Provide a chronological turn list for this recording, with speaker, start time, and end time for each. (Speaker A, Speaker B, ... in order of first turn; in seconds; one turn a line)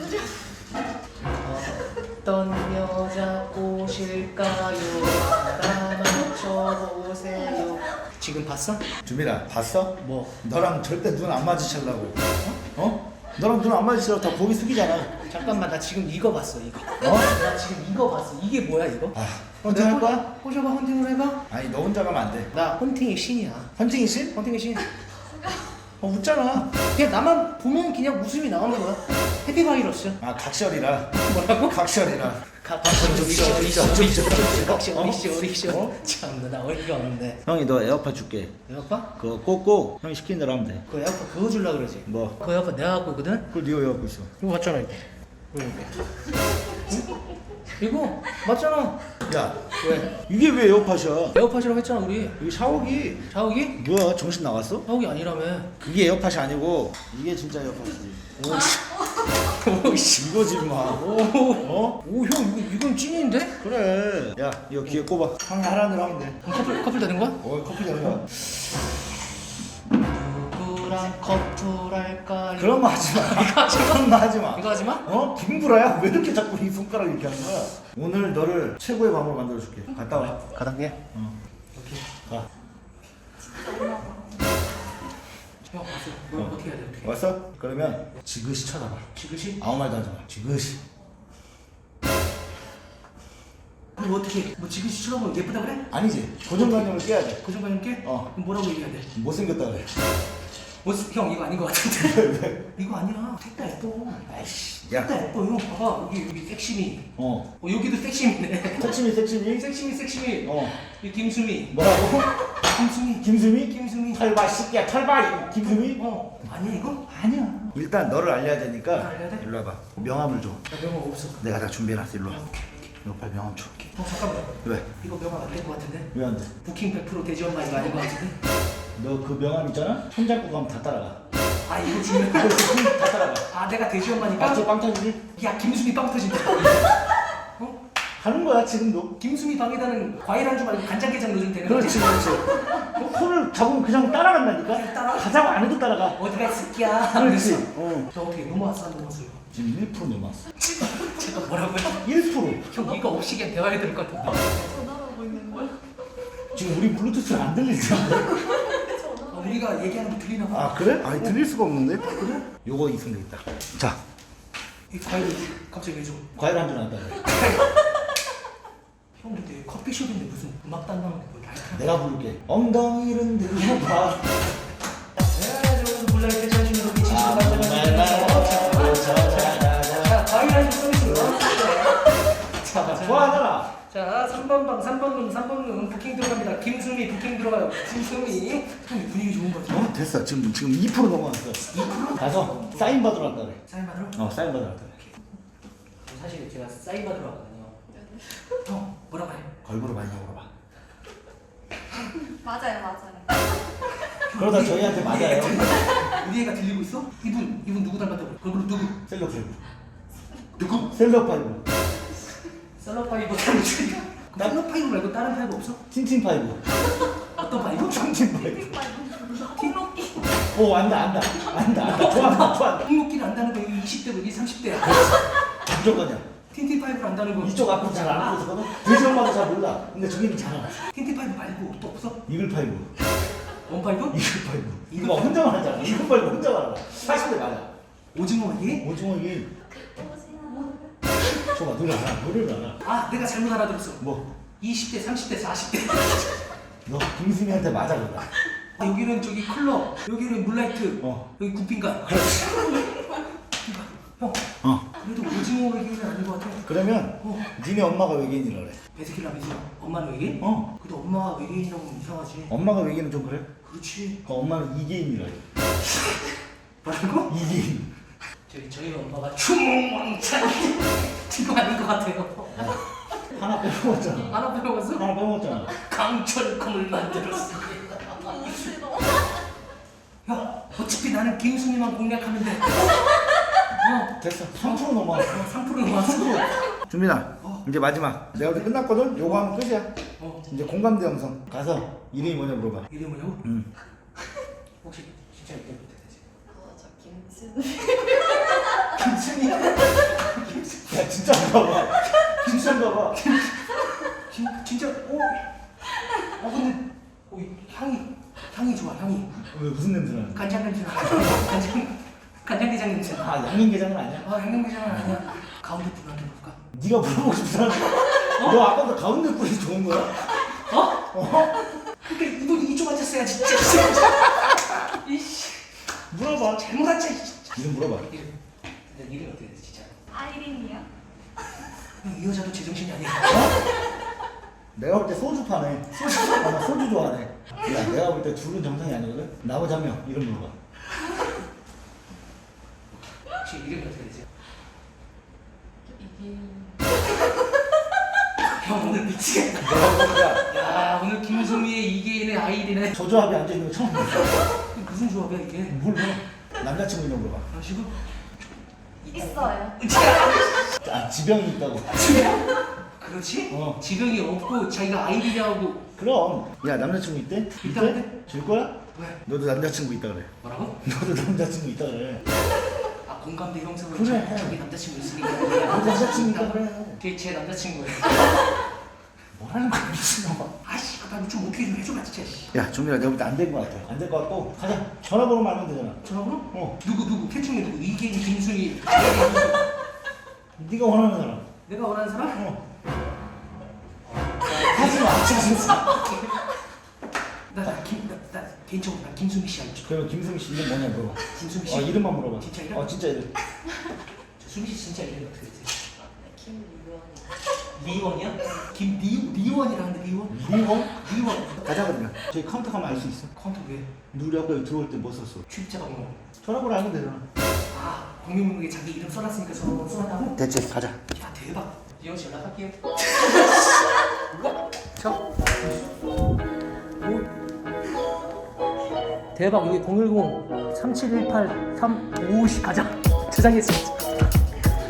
Speaker A: 1.4-8.9
Speaker B: 9.0-12.2
Speaker A: 10.0-10.3
Speaker A: 12.3-12.6
Speaker B: 12.7-15.2
Speaker A: 15.2-21.4
Speaker B: 17.0-17.3
Speaker B: 19.1-20.3
Speaker B: 21.5-22.5
Speaker A: 22.5-23.8
Speaker B: 23.8-24.4
Speaker A: 24.3-24.9
Speaker B: 26.0-26.7
Speaker A: 26.9-30.2
Speaker B: 30.2-35.8
Speaker A: 31.1-31.8
Speaker A: 32.5-37.4
Speaker B: 37.5-38.5
Speaker A: 38.7-39.1
Speaker B: 39.1-40.8
Speaker A: 40.9-43.5
Speaker B: 42.1-42.4
Speaker B: 43.5-44.3
Speaker A: 44.4-45.9
Speaker A: 46.7-47.1
Speaker A: 47.8-49.0
Speaker B: 49.3-51.4
Speaker A: 49.7-50.1
Speaker A: 51.3-52.4
Speaker B: 52.4-54.9
Speaker A: 53.3-53.8
Speaker A: 54.9-55.7
Speaker B: 55.8-58.8
Speaker A: 59.3-63.6
Speaker B: 60.1-62.0
Speaker B: 63.6-66.4
Speaker A: 66.4-67.4
Speaker B: 67.4-68.6
Speaker A: 70.0-75.1
Speaker B: 72.6-80.4
Speaker A: 80.2-81.0
Speaker A: 81.8-82.1
Speaker C: 83.6-84.2
Speaker A: 85.7-87.2
Speaker B: 86.3-90.8
Speaker A: 89.1-89.6
Speaker A: 94.0-95.9
Speaker B: 95.9-97.4
Speaker A: 96.6-96.8
Speaker A: 97.4-99.1
Speaker B: 98.0-98.3
Speaker B: 99.1-99.9
Speaker A: 100.8-104.3
Speaker B: 101.9-102.6
Speaker B: 104.2-105.1
Speaker A: 104.9-109.0
Speaker B: 107.2-107.5
Speaker B: 108.8-109.7
Speaker A: 109.5-114.3
Speaker B: 110.4-110.7
Speaker B: 111.7-112.3
Speaker B: 113.2-116.0
Speaker A: 115.7-117.1
Speaker B: 117.1-120.6
Speaker A: 118.9-119.4
Speaker A: 120.7-121.6
Speaker B: 121.4-122.4
Speaker A: 122.3-122.9
Speaker B: 123.0-123.8
Speaker A: 123.8-128.4
Speaker B: 124.6-124.9
Speaker B: 126.1-126.5
Speaker B: 129.0-131.2
Speaker A: 131.7-134.7
Speaker B: 132.2-133.4
Speaker B: 134.2-135.2
Speaker A: 135.3-137.8
Speaker B: 138.2-139.1
Speaker A: 139.2-143.2
Speaker B: 141.6-146.2
Speaker A: 144.7-145.4
Speaker A: 146.2-149.4
Speaker B: 147.0-148.1
Speaker B: 149.5-150.4
Speaker A: 150.6-154.6
Speaker B: 151.9-152.8
Speaker C: 154.6-155.7
Speaker B: 156.5-158.5
Speaker A: 158.6-161.4
Speaker C: 158.7-159.3
Speaker B: 160.5-164.0
Speaker A: 162.1-162.4
Speaker A: 164.9-166.3
Speaker B: 166.3-167.4
Speaker A: 167.2-167.8
Speaker A: 169.2-172.0
Speaker B: 171.7-174.4
Speaker A: 175.2-189.9
Speaker B: 177.0-180.3
Speaker B: 181.0-183.7
Speaker B: 189.7-193.6
Speaker A: 191.7-193.1
Speaker A: 193.6-194.3
Speaker B: 194.1-195.1
Speaker A: 196.1-197.8
Speaker A: 198.5-199.5
Speaker B: 199.6-200.5
Speaker C: 202.2-203.5
Speaker A: 204.0-209.0
Speaker B: 204.3-205.8
Speaker B: 209.1-209.6
Speaker A: 210.6-210.9
Speaker B: 210.8-211.6
Speaker A: 212.8-215.8
Speaker B: 215.9-216.8
Speaker A: 216.8-220.3
Speaker B: 217.8-218.9
Speaker C: 218.9-219.4
Speaker B: 220.4-222.9
Speaker A: 221.7-225.2
Speaker B: 224.8-226.2
Speaker A: 226.5-228.4
Speaker B: 227.4-230.8
Speaker A: 230.8-232.2
Speaker B: 232.3-232.9
Speaker A: 233.5-234.2
Speaker B: 234.1-237.7
Speaker A: 234.9-236.2
Speaker A: 238.1-238.9
Speaker B: 238.8-239.5
Speaker C: 239.8-240.9
Speaker B: 241.4-242.8
Speaker A: 242.8-244.0
Speaker B: 244.0-244.3
Speaker A: 244.6-246.4
Speaker B: 246.8-248.3
Speaker A: 248.8-252.3
Speaker B: 252.0-253.0
Speaker A: 253.6-257.5
Speaker B: 254.6-254.9
Speaker B: 256.6-258.8
Speaker A: 258.9-262.5
Speaker B: 260.4-260.7
Speaker B: 262.5-263.5
Speaker A: 263.6-264.2
Speaker B: 264.2-265.4
Speaker A: 266.8-267.4
Speaker B: 267.3-267.9
Speaker A: 268.5-273.2
Speaker B: 272.5-275.7
Speaker A: 274.1-275.1
Speaker A: 275.7-279.1
Speaker C: 278.8-279.1
Speaker A: 280.2-286.8
Speaker B: 284.2-289.9
Speaker A: 287.4-287.6
Speaker A: 288.3-289.5
Speaker A: 290.2-290.5
Speaker B: 290.5-292.9
Speaker A: 292.9-293.4
Speaker A: 294.8-296.2
Speaker C: 296.5-298.7
Speaker A: 298.7-301.0
Speaker B: 300.8-303.2
Speaker A: 301.9-305.4
Speaker A: 306.2-309.5
Speaker B: 309.4-310.5
Speaker A: 310.3-313.4
Speaker B: 313.1-314.3
Speaker A: 314.1-316.6
Speaker B: 316.7-321.7
Speaker A: 318.1-318.7
Speaker A: 320.5-321.1
Speaker A: 321.9-325.6
Speaker B: 326.1-326.6
Speaker A: 326.3-328.3
Speaker B: 327.6-328.1
Speaker A: 328.9-330.0
Speaker C: 330.1-330.9
Speaker A: 332.0-333.7
Speaker B: 333.3-333.7
Speaker B: 334.7-340.5
Speaker A: 335.9-336.6
Speaker A: 343.3-344.3
Speaker C: 345.9-346.9
Speaker A: 348.4-353.0
Speaker B: 349.6-350.4
Speaker B: 352.9-354.5
Speaker A: 354.3-355.8
Speaker B: 355.7-357.5
Speaker A: 357.5-358.0
Speaker A: 359.0-360.8
Speaker C: 359.3-359.7
Speaker B: 360.8-362.3
Speaker A: 361.9-365.9
Speaker B: 363.5-363.8
Speaker B: 366.0-370.3
Speaker A: 367.6-368.2
Speaker A: 368.9-369.2
Speaker A: 370.4-370.8
Speaker B: 370.8-372.2
Speaker A: 372.9-378.5
Speaker B: 373.9-374.6
Speaker B: 375.4-377.0
Speaker B: 379.4-380.6
Speaker A: 380.6-382.5
Speaker B: 382.5-386.0
Speaker A: 386.0-389.6
Speaker B: 386.5-386.8
Speaker B: 390.6-391.4
Speaker A: 391.6-392.5
Speaker B: 392.3-392.6
Speaker A: 394.1-396.5
Speaker B: 394.5-396.2
Speaker A: 397.5-399.9
Speaker B: 399.8-403.3
Speaker A: 401.2-402.9
Speaker A: 404.4-406.1
Speaker C: 406.2-407.3
Speaker A: 407.7-411.6
Speaker B: 410.3-413.3
Speaker A: 413.3-413.9
Speaker B: 414.1-415.4
Speaker A: 415.5-416.2
Speaker B: 416.4-417.2
Speaker A: 417.7-420.4
Speaker B: 420.3-421.0
Speaker A: 421.1-425.2
Speaker A: 427.0-427.3
Speaker A: 429.3-434.3